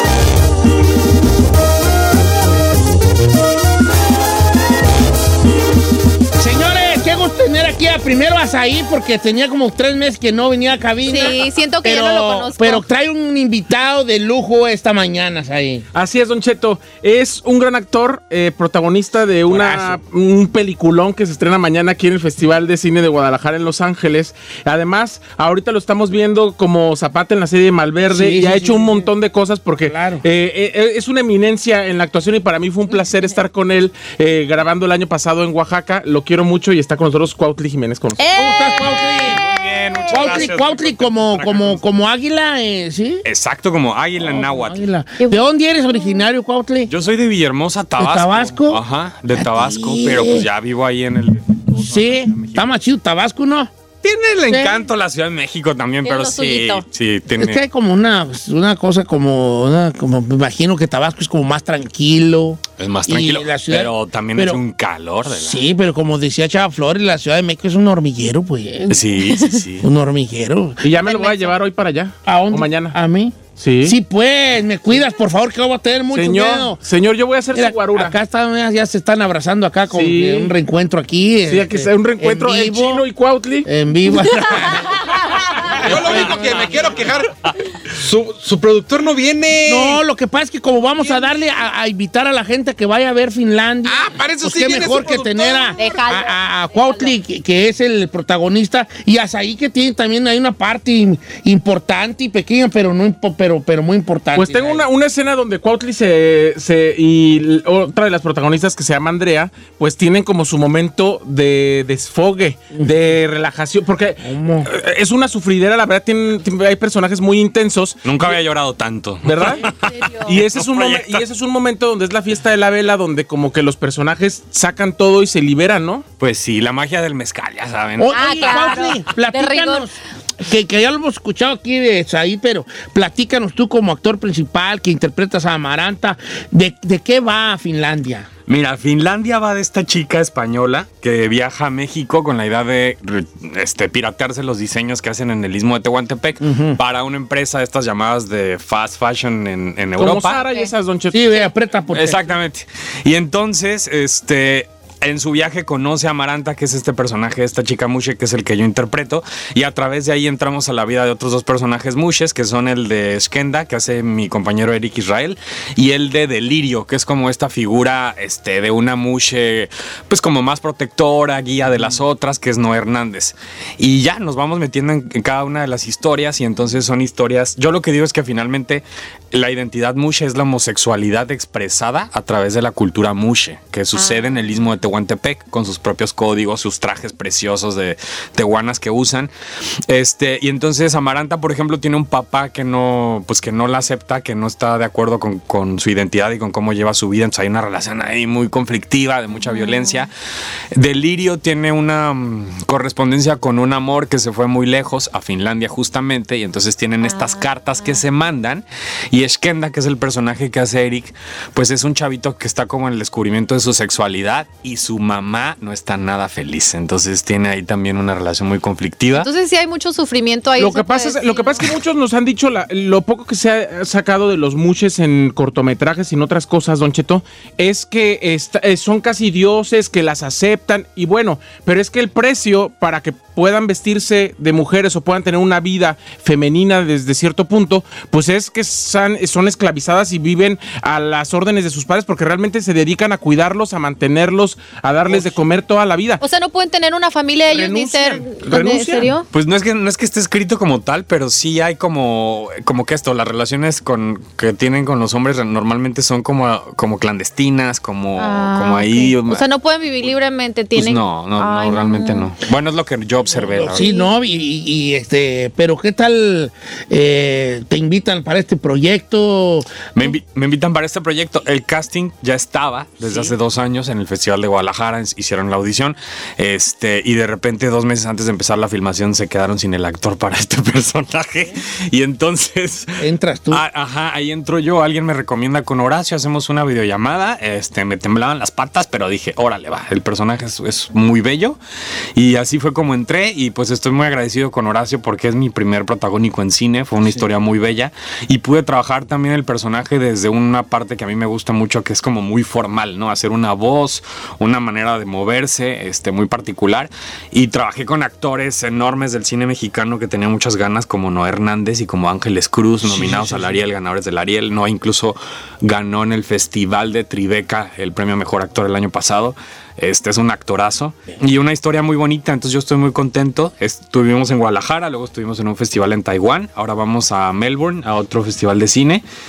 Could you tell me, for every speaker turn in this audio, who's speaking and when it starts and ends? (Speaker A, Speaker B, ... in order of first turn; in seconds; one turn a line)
Speaker A: 6.3-15.8
Speaker B: 11.1-12.8
Speaker C: 15.9-38.2
Speaker A: 19.5-20.0
Speaker A: 28.1-29.1
Speaker A: 29.8-30.2
Speaker B: 32.9-33.4
Speaker B: 38.2-40.5
Speaker A: 38.3-39.4
Speaker D: 39.2-41.8
Speaker A: 40.1-43.2
Speaker D: 43.2-44.9
Speaker A: 44.1-46.9
Speaker D: 46.9-52.7
Speaker A: 48.0-48.8
Speaker A: 49.3-50.5
Speaker A: 51.7-53.7
Speaker D: 54.0-57.6
Speaker A: 54.5-54.9
Speaker B: 56.0-56.8
Speaker A: 57.3-64.6
Speaker D: 62.8-65.6
Speaker A: 65.3-69.1
Speaker D: 68.9-69.9
Speaker B: 69.3-69.6
Speaker A: 69.8-70.8
Speaker C: 70.8-72.9
Speaker B: 71.0-71.6
Speaker A: 72.2-76.8
Speaker C: 73.6-74.0
Speaker C: 76.1-78.1
Speaker A: 77.5-83.0
Speaker C: 79.9-80.5
Speaker C: 81.5-83.7
Speaker A: 83.6-86.7
Speaker E: 85.8-90.0
Speaker D: 86.0-86.5
Speaker A: 89.7-104.9
Speaker E: 93.8-96.0
Speaker B: 95.8-97.2
Speaker C: 104.3-118.4
Speaker A: 114.2-114.7
Speaker D: 118.0-121.2
Speaker C: 119.2-119.6
Speaker B: 119.4-120.4
Speaker C: 120.2-126.0
Speaker D: 126.2-128.6
Speaker A: 128.0-138.3
Speaker B: 128.1-129.9
Speaker D: 138.5-150.4
Speaker A: 146.4-146.8
Speaker C: 150.0-151.3
Speaker A: 151.1-152.3
Speaker D: 151.9-189.3
Speaker D: 189.9-200.1
Speaker D: 200.7-219.3
Speaker B: 219.1-221.7
Speaker C: 220.6-246.2
Speaker A: 245.1-245.4
Speaker B: 246.2-249.2
Speaker C: 247.4-249.1
Speaker D: 249.3-259.4
Speaker B: 258.2-262.3
Speaker D: 260.7-263.9
Speaker A: 263.3-269.9
Speaker B: 263.7-264.1
Speaker D: 269.9-291.6
Speaker A: 273.0-273.3
Speaker A: 283.0-283.6
Speaker D: 292.1-329.0
Speaker A: 312.9-313.2
Speaker C: 313.0-313.4